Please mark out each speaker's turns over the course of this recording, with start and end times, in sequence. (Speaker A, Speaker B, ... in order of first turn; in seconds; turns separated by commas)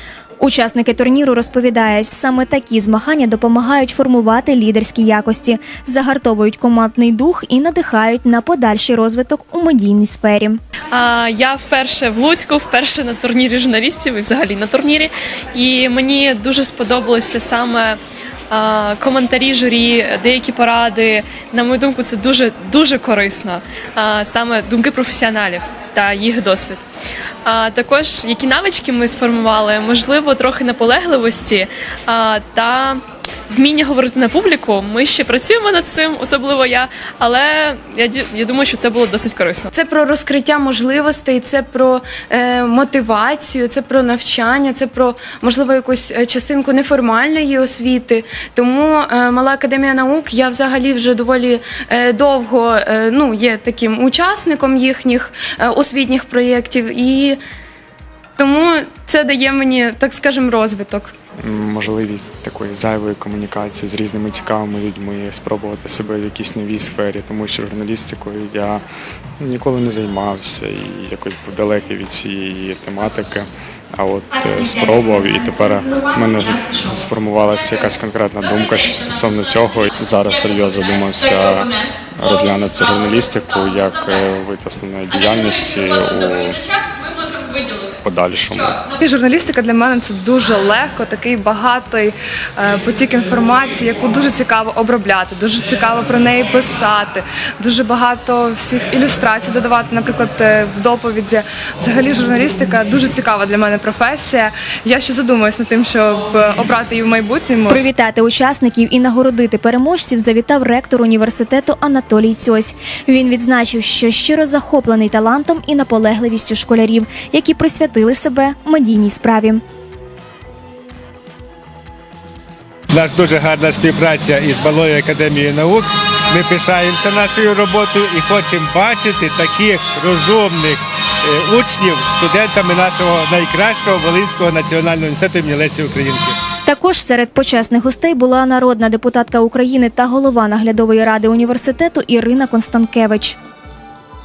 Speaker A: 0.4-10.6, Speaker B: 10.9-18.0, Speaker B: 18.5-26.8, Speaker B: 27.4-39.7, Speaker C: 39.7-57.4, Speaker C: 58.4-61.1, Speaker D: 61.4-68.8, Speaker D: 69.4-86.6, Speaker D: 88.0-88.8, Speaker E: 89.0-107.8, Speaker A: 107.7-119.6, Speaker F: 122.9-136.3, Speaker A: 136.7-143.3